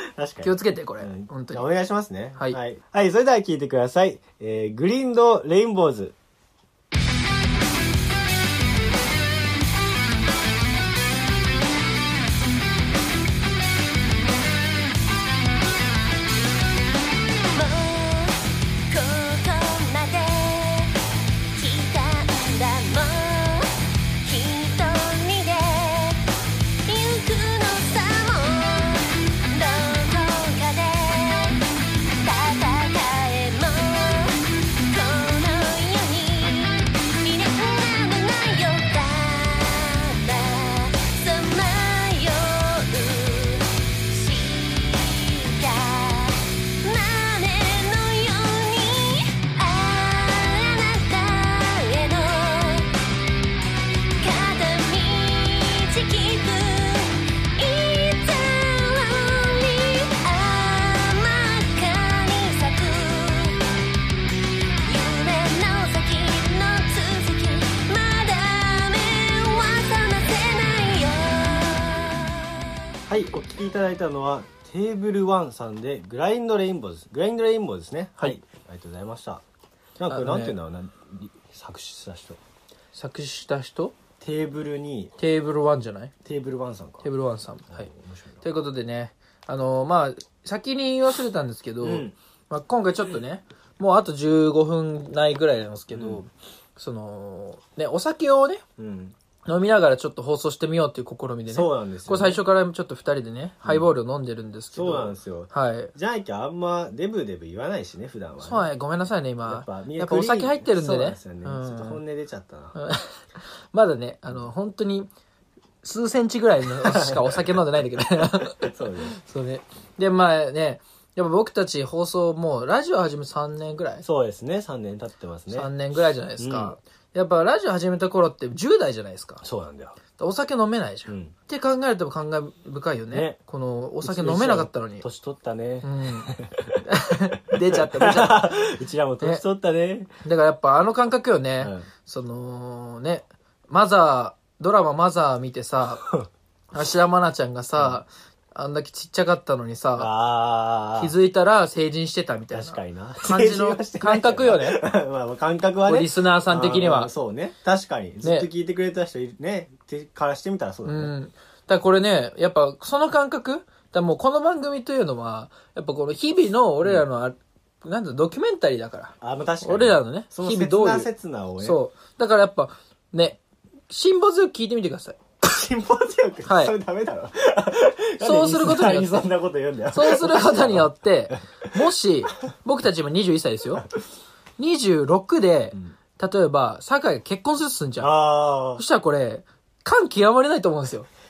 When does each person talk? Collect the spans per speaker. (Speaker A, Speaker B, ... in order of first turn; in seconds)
Speaker A: 0.1-6.1, 73.1-79.4, 80.0-82.4, 84.2-85.1, 86.2-87.1, 87.7-88.4, 91.8-92.1, 95.9-96.2, 98.8-99.1, 101.5-102.4, 104.7-108.7, 109.5-112.8, 116.8-117.4, 118.6-119.2, 124.0-125.7, 126.4-126.7, 129.4-130.0, 131.1-131.3, 133.1-133.4, 134.0-136.8, 137.6-140.1, 141.6-141.9, 150.0-151.1, 152.5-161.1, 169.2-171.8, 175.4-181.7, 188.0-188.8
Speaker B: 0.4-1.6, 80.1-80.5, 82.9-83.9, 85.2-86.1, 87.0-87.9, 88.4-98.6, 99.4-105.9, 108.4-112.0, 112.8-115.1, 115.8-124.0, 125.5-129.4, 130.2-135.0, 135.8-136.3, 136.8-138.6, 140.2-146.0, 146.7-150.1, 151.0-154.8, 155.8-157.1, 160.8-171.1, 171.6-175.2, 176.4-176.7, 178.2-179.2, 179.9-183.8, 184.6-188.1, 188.8-191.1
Speaker C: 17.5-21.0, 21.5-23.7, 24.2-26.2, 26.9-31.6, 32.2-53.0, 54.2-63.7, 64.8-72.7